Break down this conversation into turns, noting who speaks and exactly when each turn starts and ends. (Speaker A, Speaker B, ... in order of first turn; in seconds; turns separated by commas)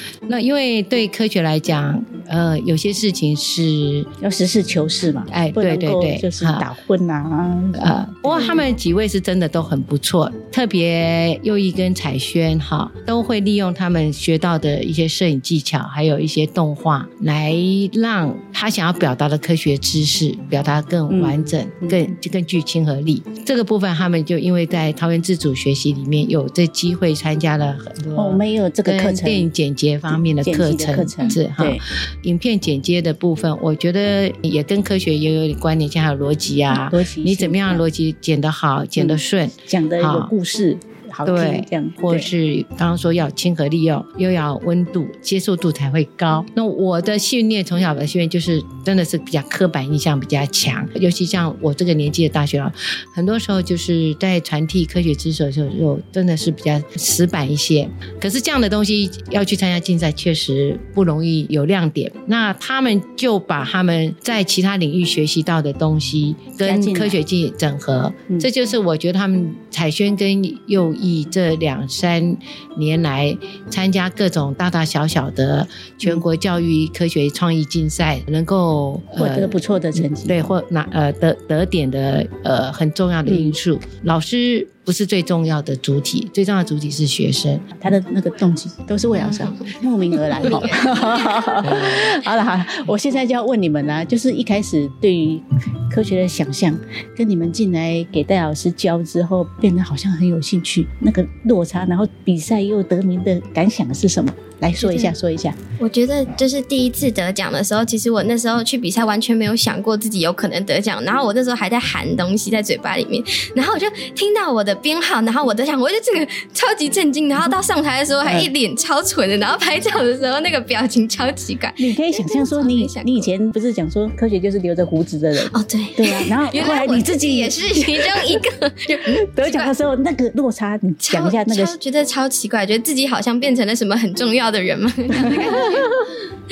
Speaker A: 0.3-4.1, Speaker B: 4.2-8.5, Speaker A: 5.3-6.7, Speaker A: 7.8-40.3, Speaker B: 21.1-22.0, Speaker B: 28.2-29.5, Speaker B: 30.1-31.8, Speaker B: 36.7-37.8, Speaker B: 39.7-42.3, Speaker A: 41.2-87.7, Speaker B: 66.6-67.2, Speaker B: 79.2-80.5, Speaker B: 83.3-83.6, Speaker B: 87.8-105.6, Speaker C: 104.8-105.1, Speaker C: 105.8-123.3, Speaker B: 118.2-118.5, Speaker B: 121.8-128.4, Speaker C: 125.5-129.7, Speaker B: 129.1-131.7, Speaker C: 131.0-135.9, Speaker B: 135.3-135.8